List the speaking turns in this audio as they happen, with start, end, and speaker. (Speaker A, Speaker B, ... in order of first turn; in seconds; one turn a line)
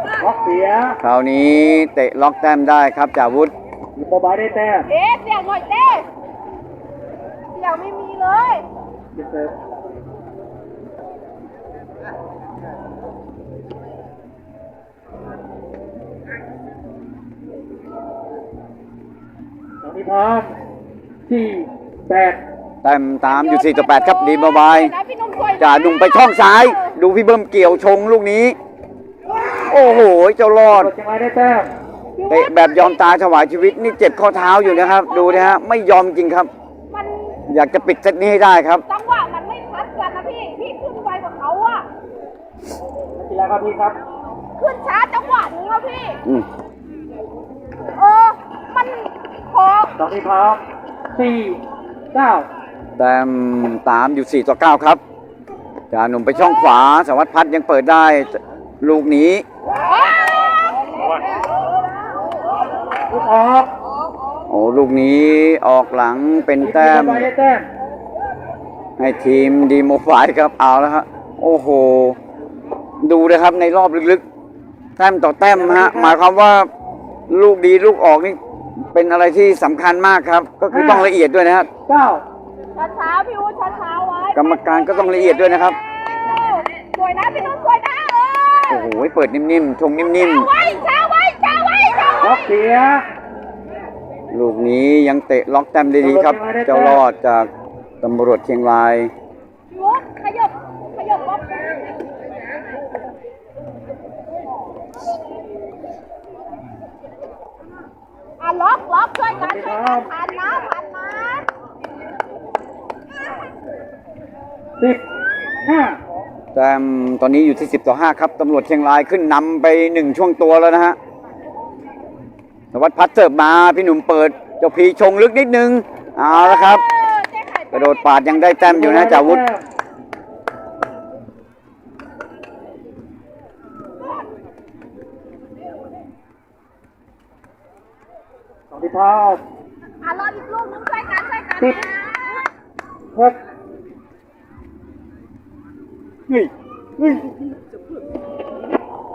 Speaker A: 0.2-1.0
Speaker B: 1.0-3.5
Speaker A: 4.0-4.9
Speaker C: 4.9-6.1
Speaker C: 7.5-8.6
Speaker A: 9.1-9.5
Speaker A: 19.8-20.5
Speaker A: 21.3-22.4
Speaker B: 22.8-24.9
Speaker C: 23.2-26.9
Speaker B: 25.6-28.6
Speaker B: 29.6-30.9
Speaker A: 30.7-31.7
Speaker C: 32.1-33.0
Speaker B: 32.3-36.5
Speaker C: 34.3-35.6
Speaker C: 36.9-37.4
Speaker B: 37.5-38.8
Speaker C: 38.9-41.9
Speaker A: 43.1-44.0
Speaker C: 44.6-46.2
Speaker C: 47.9-49.9
Speaker A: 50.0-52.5
Speaker B: 53.0-55.0
Speaker B: 55.9-59.4
Speaker C: 59.8-61.3
Speaker A: 63.1-63.7
Speaker B: 64.5-67.3
Speaker A: 66.6-67.7
Speaker B: 69.0-72.2
Speaker B: 73.0-74.2
Speaker B: 75.0-76.7
Speaker A: 75.5-76.2
Speaker B: 77.3-78.4
Speaker B: 78.9-81.7
Speaker A: 80.7-81.1
Speaker A: 81.9-82.2
Speaker C: 82.7-88.9
Speaker B: 84.3-85.8
Speaker B: 88.7-90.5
Speaker C: 90.1-92.4
Speaker A: 92.2-93.0
Speaker B: 94.3-97.5
Speaker A: 96.0-97.0
Speaker B: 98.0-99.1
Speaker C: 99.7-101.9
Speaker C: 108.4-111.4
Speaker A: 109.4-110.1
Speaker A: 115.6-116.0
Speaker B: 116.5-121.0
Speaker B: 122.7-126.8
Speaker C: 126.3-128.6
Speaker B: 127.7-129.4
Speaker A: 128.7-129.6
Speaker A: 138.7-139.4
Speaker C: 140.0-142.4
Speaker B: 146.3-147.3